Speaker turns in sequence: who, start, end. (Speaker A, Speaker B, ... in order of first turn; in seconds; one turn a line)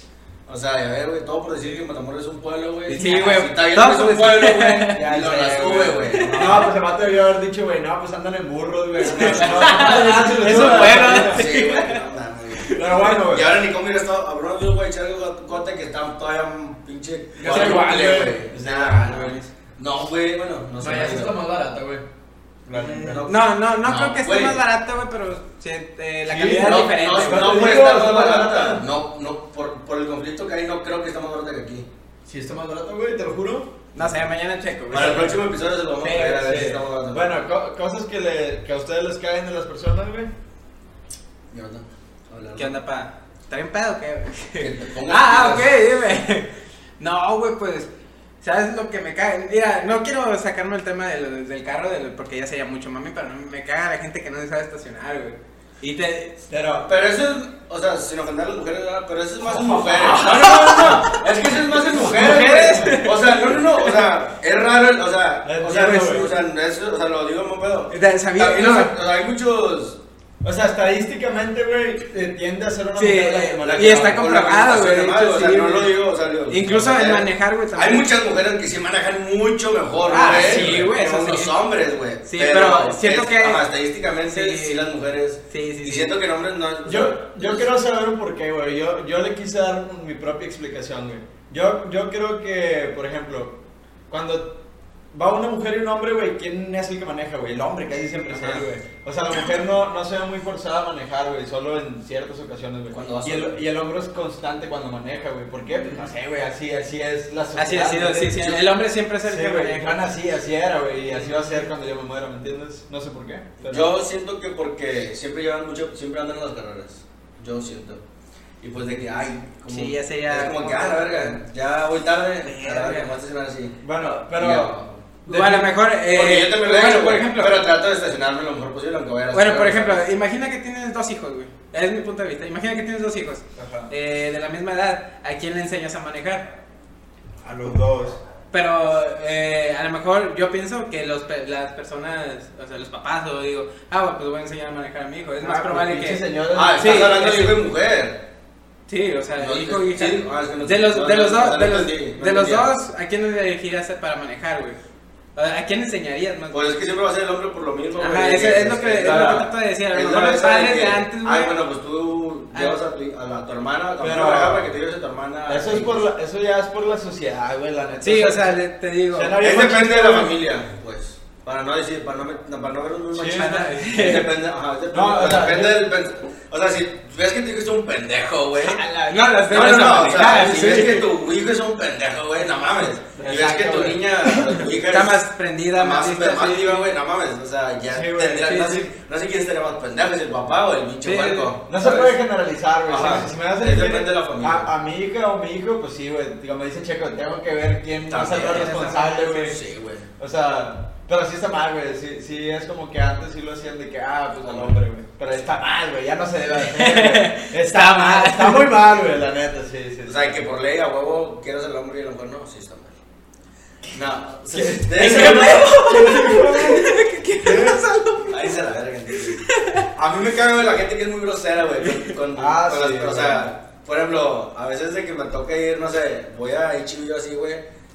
Speaker A: 0.5-6.7
Speaker B: 2.9-6.7
Speaker C: 4.9-11.4
Speaker B: 9.0-12.0
Speaker A: 9.0-21.4
Speaker B: 12.6-12.9
Speaker C: 12.7-13.5
Speaker C: 17.4-19.4
Speaker B: 17.4-18.3
Speaker B: 19.1-19.4
Speaker C: 20.8-22.0
Speaker C: 22.7-23.3
Speaker B: 22.8-27.7
Speaker A: 22.8-24.6
Speaker C: 26.3-28.9
Speaker A: 26.5-31.9
Speaker C: 32.3-33.7
Speaker B: 34.0-35.4
Speaker A: 34.9-37.4
Speaker C: 36.0-40.3
Speaker A: 41.5-42.8
Speaker B: 42.6-47.9
Speaker A: 44.6-45.8
Speaker B: 48.4-56.4
Speaker C: 56.5-56.9
Speaker A: 56.9-70.0
Speaker C: 59.4-60.9
Speaker B: 60.1-61.1
Speaker C: 61.8-63.0
Speaker B: 62.0-64.0
Speaker C: 65.4-66.3
Speaker B: 65.8-66.3
Speaker B: 67.9-68.9
Speaker C: 70.4-74.2
Speaker B: 73.0-76.0
Speaker A: 73.7-87.7
Speaker B: 76.5-78.1
Speaker B: 80.1-81.6
Speaker C: 80.2-80.9
Speaker B: 82.2-83.7
Speaker B: 84.2-84.8
Speaker B: 85.5-86.2
Speaker C: 86.8-93.6
Speaker C: 94.1-94.6
Speaker C: 95.1-108.5
Speaker A: 102.9-103.6
Speaker B: 105.8-106.1
Speaker B: 107.6-110.0
Speaker A: 108.3-108.6
Speaker C: 109.3-113.9
Speaker A: 113.6-118.0
Speaker A: 118.6-123.8
Speaker B: 119.7-121.4
Speaker B: 122.4-123.1
Speaker C: 123.8-125.7
Speaker A: 124.3-125.0
Speaker B: 125.3-127.6
Speaker A: 126.1-130.1
Speaker B: 129.3-136.5
Speaker C: 133.6-133.9
Speaker C: 137.4-138.2
Speaker B: 138.5-146.2
Speaker C: 145.4-147.2
Speaker A: 146.5-148.2
Speaker B: 146.8-147.5
Speaker B: 148.9-154.8
Speaker A: 149.4-152.7
Speaker B: 155.4-156.7
Speaker A: 156.5-166.0
Speaker B: 158.0-161.6
Speaker B: 162.5-162.8
Speaker C: 164.0-164.7
Speaker C: 165.5-168.6
Speaker B: 168.0-169.4
Speaker C: 169.1-170.4
Speaker A: 169.4-185.2
Speaker C: 173.2-173.7
Speaker B: 173.2-174.4
Speaker C: 174.9-175.9
Speaker B: 178.6-181.1
Speaker C: 183.2-184.2
Speaker B: 184.2-186.8
Speaker A: 185.8-192.2
Speaker C: 187.9-188.9
Speaker B: 191.0-191.5
Speaker C: 191.7-199.6
Speaker A: 192.9-194.7
Speaker A: 198.1-198.9
Speaker B: 198.3-199.6
Speaker A: 199.4-200.1
Speaker C: 200.2-210.4
Speaker A: 204.4-204.8
Speaker B: 206.7-208.7
Speaker A: 210.1-213.0
Speaker A: 213.9-215.7
Speaker C: 214.5-217.8
Speaker B: 214.9-219.9
Speaker A: 218.3-227.6
Speaker B: 221.8-222.2
Speaker C: 222.4-223.4